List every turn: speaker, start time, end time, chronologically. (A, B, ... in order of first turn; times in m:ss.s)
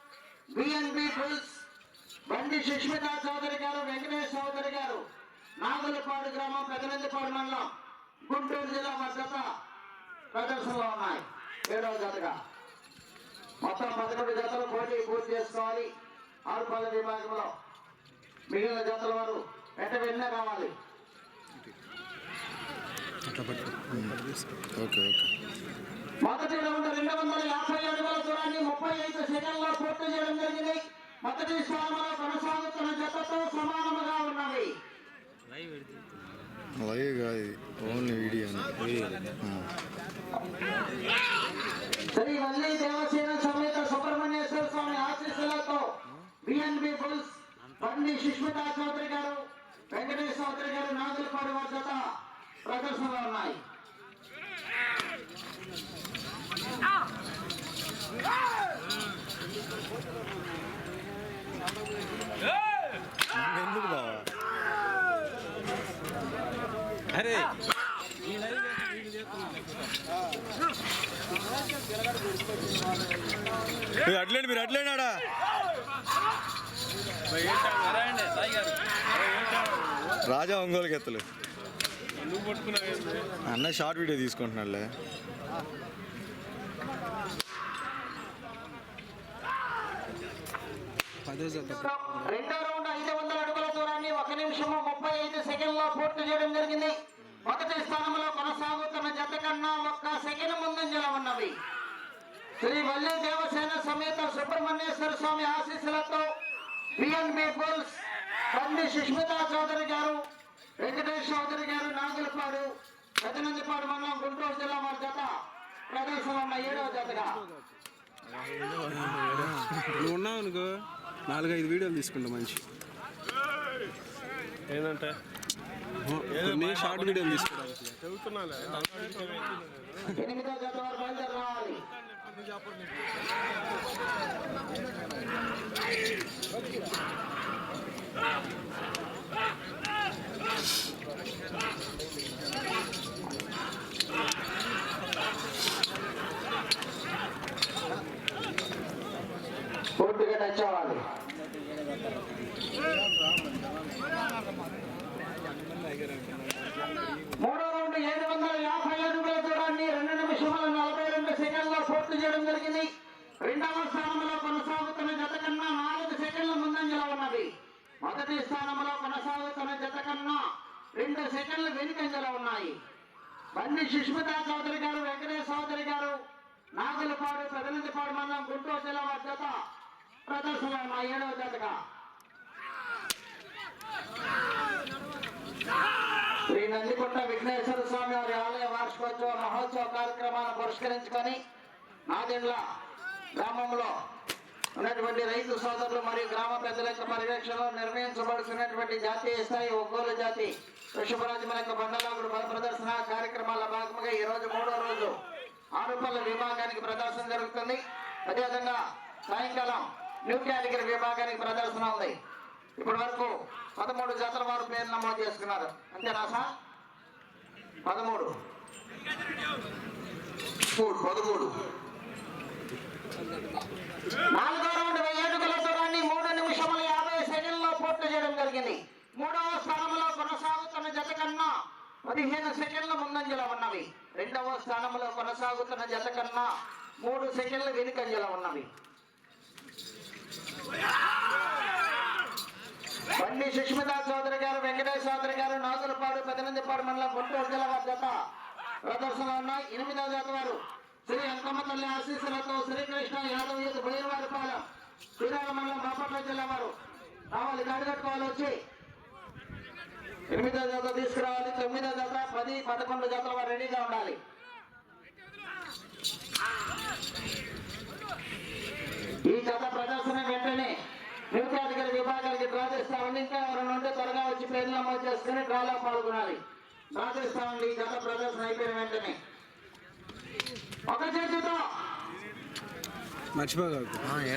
0:00.5-0:01.6 A
0:02.3-0:05.0 A
0:05.6-0:07.7 A
0:08.3-0:09.5 A
0:10.3-0:12.3 A
0:13.6-0:15.9 A
0:16.5-0:17.5 A
0:18.5-0:20.7 A
0:23.3-0:23.8 B
0:23.9-0:24.2 C
0:24.7-0:25.3 C
0:26.2-0:34.7 A
0:36.8-0:39.7 C
0:42.1-0:45.8 A
0:46.4-0:49.4 A
0:49.9-0:52.0 A
0:52.6-0:53.6 A
1:03.3-1:04.3 C
1:07.2-1:07.5 B
1:14.0-1:15.2 C
1:20.2-1:21.2 C
1:23.4-1:24.9 C
1:31.2-1:32.3 B
1:31.6-1:36.9 A
1:37.4-1:41.6 A
1:42.6-1:46.2 A
1:47.0-1:50.2 A
1:50.8-1:52.7 A
1:53.2-1:55.3 A
1:55.9-1:57.4 A
1:58.8-2:00.7 B
2:01.2-2:02.6 B
2:06.0-2:08.0 B
2:10.1-2:11.8 A
2:30.0-2:31.0 A
2:37.4-2:42.9 A
2:43.4-2:47.5 A
2:48.0-2:50.4 A
2:51.0-2:52.8 A
2:53.5-2:56.2 A
2:56.8-2:59.5 A
3:00.3-3:01.8 A
3:06.5-3:11.4 A
3:12.1-3:12.6 A
3:13.4-3:13.9 A
3:14.8-3:25.1 A
3:25.8-3:32.2 A
3:32.8-3:36.5 A
3:37.8-3:38.3 A
3:40.7-3:41.5 A
3:44.3-3:51.5 A
3:52.0-3:56.5 A
3:57.0-3:58.7 A
4:03.2-4:08.1 A
4:08.8-4:14.6 A
4:15.2-4:16.7 A
4:17.3-4:18.6 A
4:20.3-4:24.2 A
4:29.3-4:30.7 A
4:31.3-4:36.4 A
4:37.0-4:39.2 A
4:40.9-4:41.6 A
4:43.3-4:44.2 B